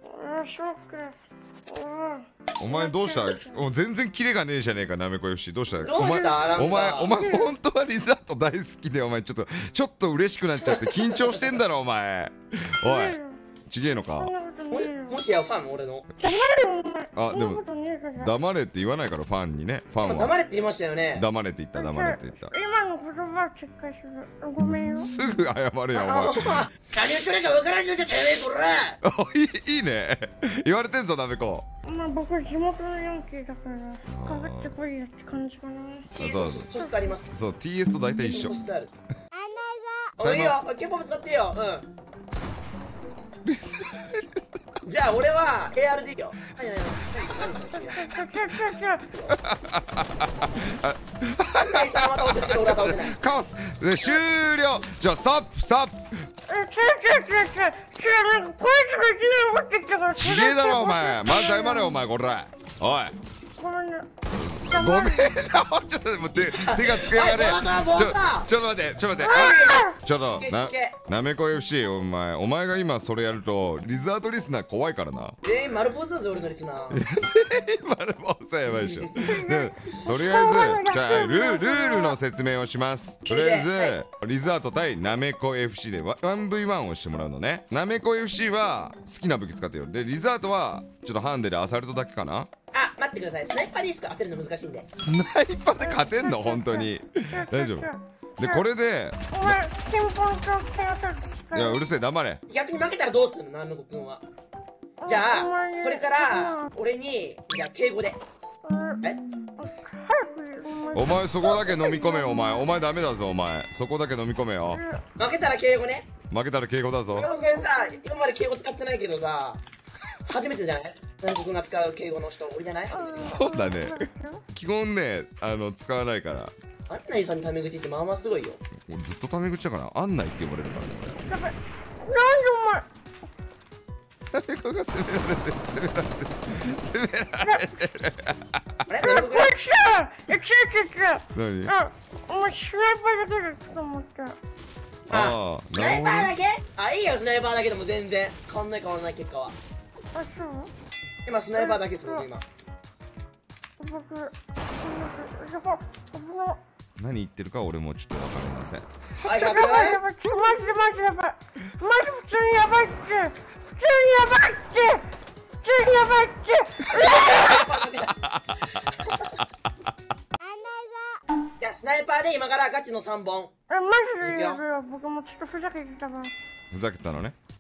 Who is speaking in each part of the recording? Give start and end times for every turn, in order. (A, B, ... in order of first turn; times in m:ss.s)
0:00.2-0:03.6 A
0:02.6-0:13.2 B
0:05.8-0:07.2 C
0:05.9-0:07.5 A
0:10.6-0:11.4 C
0:12.8-0:13.4 A
0:13.7-0:14.3 B
0:14.1-0:15.2 A
0:14.7-0:16.1 C
0:16.2-0:18.3 A
0:17.2-0:17.6 B
0:18.2-0:20.3 B
0:20.0-0:21.2 C
0:21.2-0:22.5 B
0:21.8-0:25.1 A
0:24.6-0:26.6 B
0:25.9-0:29.0 C
0:29.0-0:31.7 B
0:31.9-0:37.0 A
0:34.1-0:34.8 B
0:36.1-0:37.3 C
0:36.2-0:36.7 B
0:37.3-0:38.6 B
0:38.2-0:38.9 C
0:40.2-0:41.9 C
0:40.2-0:40.6 B
0:43.4-0:44.5 B
0:44.8-0:48.1 C
0:47.8-0:49.1 A
0:49.3-0:56.2 B
0:51.6-0:53.2 C
0:56.5-1:02.0 A
1:00.1-1:03.2 B
1:03.6-1:04.1 A
1:04.3-1:15.4 B
1:04.7-1:05.3 A
1:06.3-1:08.5 C
1:09.2-1:10.0 A
1:09.2-1:11.0 C
1:15.4-1:17.0 C
1:16.9-1:32.5 B
1:18.9-1:19.1 C
1:19.2-1:22.2 A
1:23.3-1:24.0 C
1:32.7-1:34.9 C
1:34.9-1:39.6 B
1:35.8-1:38.6 A
1:39.3-1:41.8 A
1:41.5-1:42.4 B
1:42.5-1:44.2 C
1:45.0-1:46.7 A
1:45.1-1:48.2 C
1:48.6-1:52.8 A
1:50.9-1:54.8 B
1:54.7-1:55.0 A
1:55.2-1:56.1 C
1:56.3-1:57.3 B
1:57.1-1:59.6 C
1:57.3-1:58.0 A
2:00.2-2:03.4 C
2:02.9-2:04.4 A
2:03.2-2:06.5 B
2:06.9-2:08.6 C
2:08.9-2:11.3 B
2:11.2-2:12.9 A
2:14.3-2:18.8 B
2:17.4-2:17.7 A
2:18.9-2:19.6 C
2:19.0-2:24.4 A
2:21.3-2:21.8 B
2:25.1-2:26.4 B
2:25.1-2:29.6 C
2:30.1-2:30.7 A
2:31.2-2:32.4 C
2:31.6-2:32.2 A
2:33.8-2:36.6 A
2:37.0-2:39.3 B
2:39.2-2:40.0 C
2:39.3-2:45.1 A
2:45.6-2:47.2 A
2:46.8-2:49.4 C
2:47.3-2:47.8 B
2:51.6-2:53.5 C
2:53.7-2:56.3 A
2:54.2-2:54.6 C
2:56.7-2:57.4 B